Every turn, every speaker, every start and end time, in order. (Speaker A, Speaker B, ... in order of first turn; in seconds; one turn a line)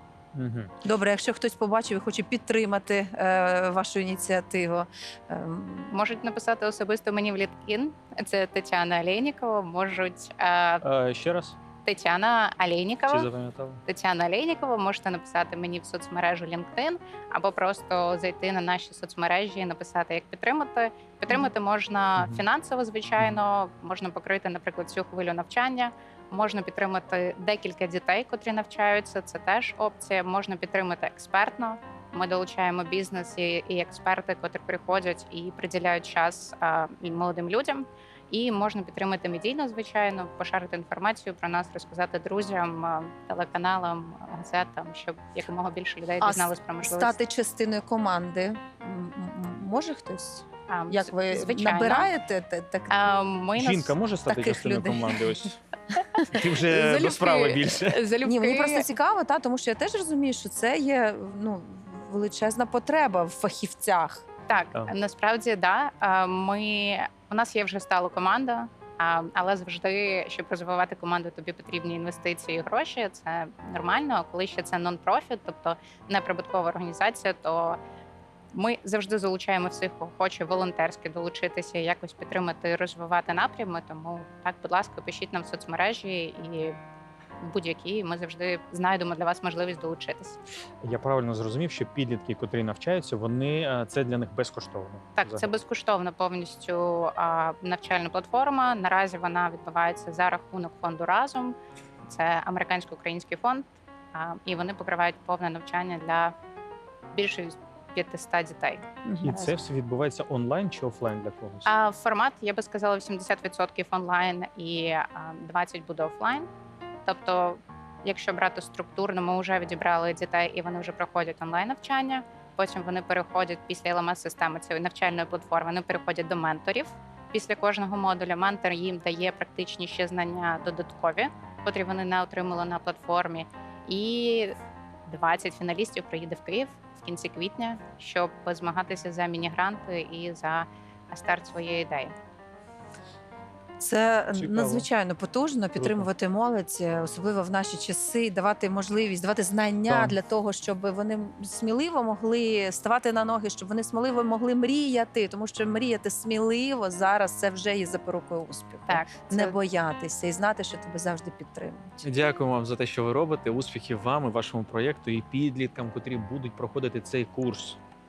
Speaker A: 0.3-0.7
Speaker B: 0.8-5.9
Speaker C: 5.9-10.8
Speaker A: 10.8-11.6
Speaker C: 11.8-13.3
Speaker A: 13.1-13.8
Speaker C: 13.8-47.2
Speaker B: 46.2-53.1
Speaker C: 50.7-52.1
Speaker C: 52.9-53.9
Speaker A: 53.5-55.6
Speaker B: 54.2-55.3
Speaker B: 56.2-56.4
Speaker A: 56.3-58.0
Speaker C: 56.6-58.9
Speaker B: 58.2-64.2
Speaker C: 64.5-77.8
Speaker C: 78.5-86.7
Speaker C: 87.4-90.4
Speaker A: 90.8-95.5
Speaker C: 95.2-101.5
Speaker C: 102.1-106.3
Speaker C: 107.1-108.8
Speaker B: 109.0-109.5
Speaker A: 109.2-111.7
Speaker C: 111.6-116.5
Speaker C: 117.0-142.1
Speaker B: 143.8-162.1
Speaker A: 144.3-144.9
Speaker A: 145.8-146.1
Speaker A: 149.9-150.2
Speaker C: 158.9-159.6
Speaker A: 162.0-167.8